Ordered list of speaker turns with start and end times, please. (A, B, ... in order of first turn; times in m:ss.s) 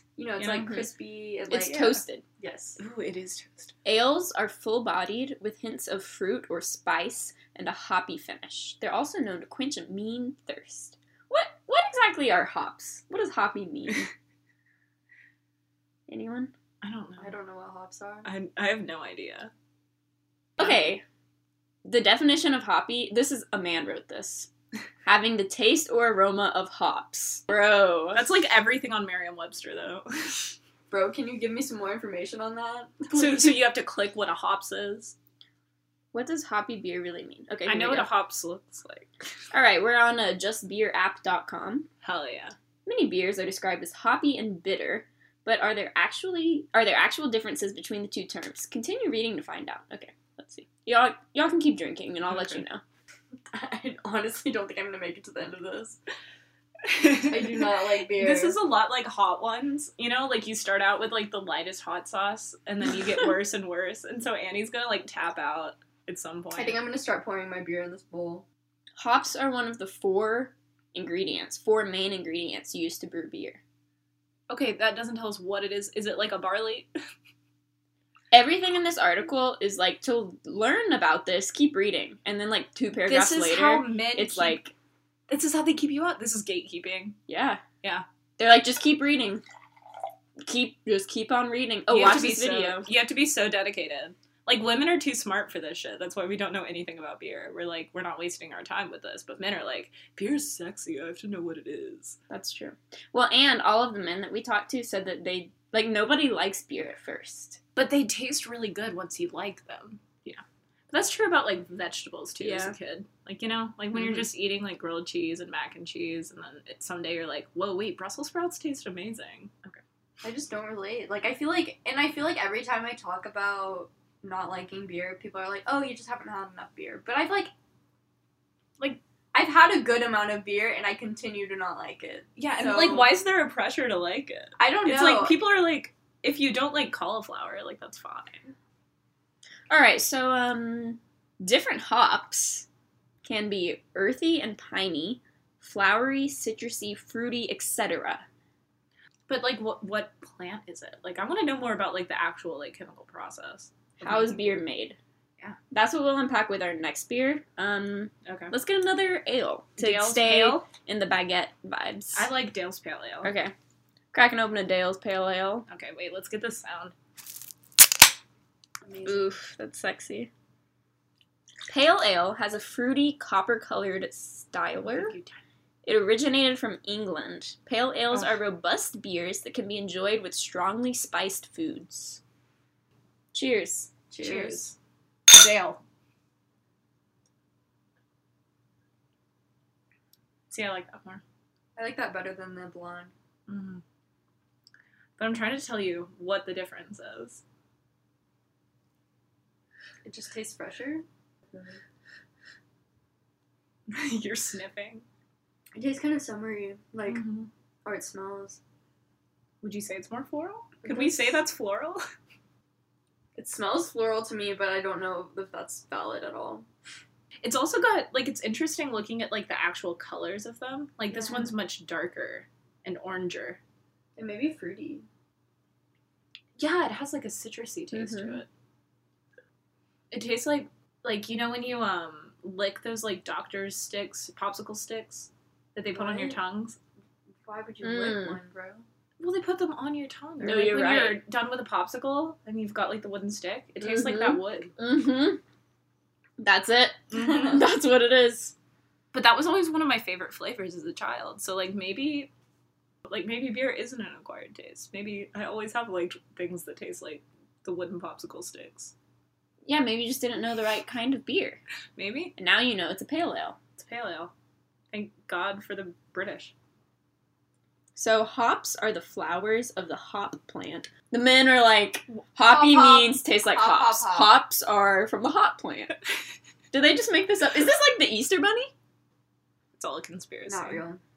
0:00.2-0:02.8 A
0:00.4-0:00.7 B
0:00.6-0:00.9 C
0:01.5-0:02.2 C
0:02.8-0:03.8 B
0:03.8-0:14.1 C
0:16.1-0:16.5 C
0:16.8-0:17.4 B
0:17.2-0:18.3 A
0:18.2-0:19.5 B
0:20.6-0:21.0 C
0:21.8-0:24.5 C
0:25.0-0:28.2 C
0:28.1-0:30.5 B
0:30.9-0:33.5 A
0:33.1-0:35.2 B
0:36.1-0:38.1 C
0:37.7-0:39.1 B
0:39.5-0:41.9 C
0:42.0-0:42.6 B
0:42.9-0:52.8 C
0:52.3-0:52.6 B
0:53.5-0:56.0 A
0:56.8-1:06.8 B
0:57.3-0:58.6 A
1:06.5-1:08.4 A
1:09.0-1:13.6 C
1:14.5-1:16.9 B
1:18.3-1:24.7 C
1:23.1-1:24.6 B
1:25.3-1:27.2 B
1:27.3-1:27.6 C
1:28.4-1:29.4 C
1:30.4-1:32.9 C
1:31.9-1:42.2 B
1:42.3-1:47.6 C
1:47.8-1:59.8 B
1:52.4-1:52.8 C
1:54.0-1:54.2 C
2:00.2-2:07.5 A
2:08.8-2:13.1 A
2:12.4-2:18.5 B
2:14.6-2:15.4 A
2:19.7-2:22.7 C
2:23.2-2:28.2 C
2:29.3-2:34.6 B
2:34.0-2:35.0 C
2:35.7-2:42.3 C
2:38.2-2:38.5 B
2:39.8-2:40.7 B
2:42.2-2:43.3 B
2:43.2-2:43.5 C
2:44.1-2:45.7 C
2:45.7-2:47.0 B
2:48.8-2:49.3 A
2:49.0-2:50.3 C
2:51.7-2:55.2 C
2:54.8-2:55.4 B
2:55.8-3:02.2 C
2:58.1-2:58.4 B
3:03.3-3:03.9 C
3:04.1-3:04.7 A
3:04.2-3:04.7 B
3:05.3-3:05.8 B
3:10.5-3:11.2 B
3:11.8-3:13.1 A
3:13.5-3:13.8 B
3:15.2-3:17.4 B
3:20.0-3:21.8 A
3:23.9-3:25.0 B
3:25.8-3:27.2 A
3:27.1-3:27.5 B
3:27.8-3:28.6 A
3:29.6-3:32.0 B
3:30.8-3:31.4 A
3:33.4-3:36.7 A
3:37.4-3:43.6 B
3:41.1-3:41.5 A
3:44.2-3:45.1 A
3:46.6-3:48.5 B
3:47.9-3:48.4 C
3:50.1-3:56.8 B
3:55.9-3:56.4 A
3:57.4-3:58.9 A
3:57.8-3:58.4 C
3:59.2-4:04.7 B
4:00.4-4:01.2 C
4:03.8-4:05.4 C
4:06.4-4:08.5 C
4:07.1-4:07.6 B
4:09.1-4:12.3 B
4:13.1-4:18.9 B
4:19.7-4:21.6 C
4:22.0-4:22.3 B
4:22.4-4:23.6 C
4:23.8-4:24.3 B
4:24.9-4:26.5 B
4:28.0-4:36.0 C
4:32.4-4:34.4 A
4:36.7-4:38.7 C
4:39.8-4:40.8 B
4:40.5-4:41.0 A